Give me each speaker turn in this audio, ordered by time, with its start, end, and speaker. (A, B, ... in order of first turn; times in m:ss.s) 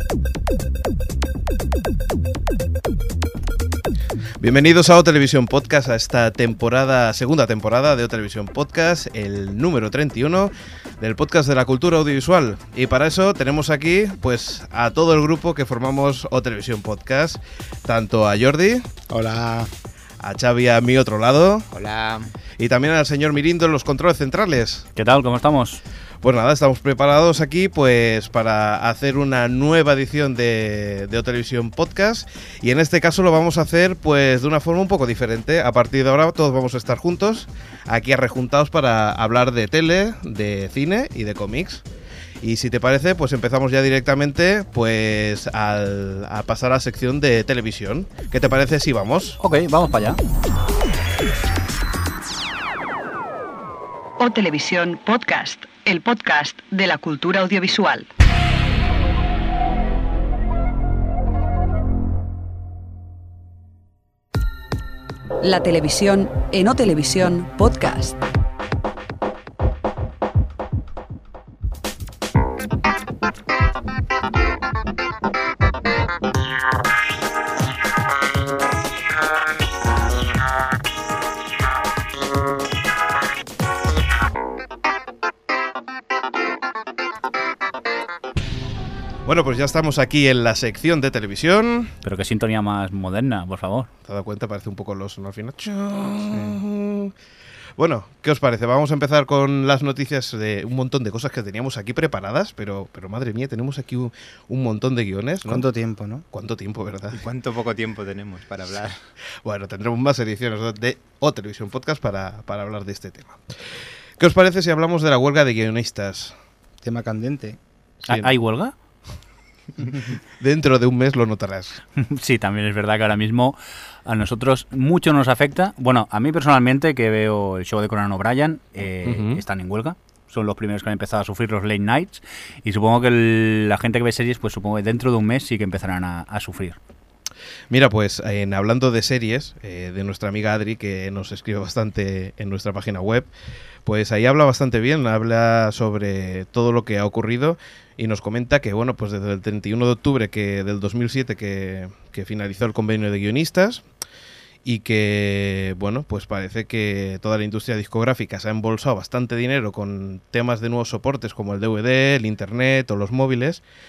0:04.4-0:18.9 A
0:19.1-0:19.7 B
0:20.2-0:21.7 A
0:21.7-0:22.3 C
0:22.6-0:24.9 A
0:25.0-0:25.8 D
0:26.2-0:41.8 A
0:42.4-0:49.4 A
0:49.4-0:50.2 D
0:54.2-0:58.1 E
1:05.4-1:08.2 E
1:29.2-1:31.9 A
1:32.0-1:33.9 D
1:34.0-1:37.1 A
1:36.3-1:36.6 B
1:37.8-1:45.6 A
1:45.5-1:46.2 B
1:46.3-1:47.2 A
1:47.1-1:49.0 C
1:49.4-1:53.4 A
1:54.2-1:56.3 A
1:56.8-1:57.6 B
1:58.0-1:58.3 A
1:58.0-1:58.7 D
2:00.4-2:01.8 A
2:02.0-2:16.8 D
2:09.0-2:09.4 A
2:17.7-2:23.3 A
2:23.8-2:33.8 A
2:34.6-2:43.6 A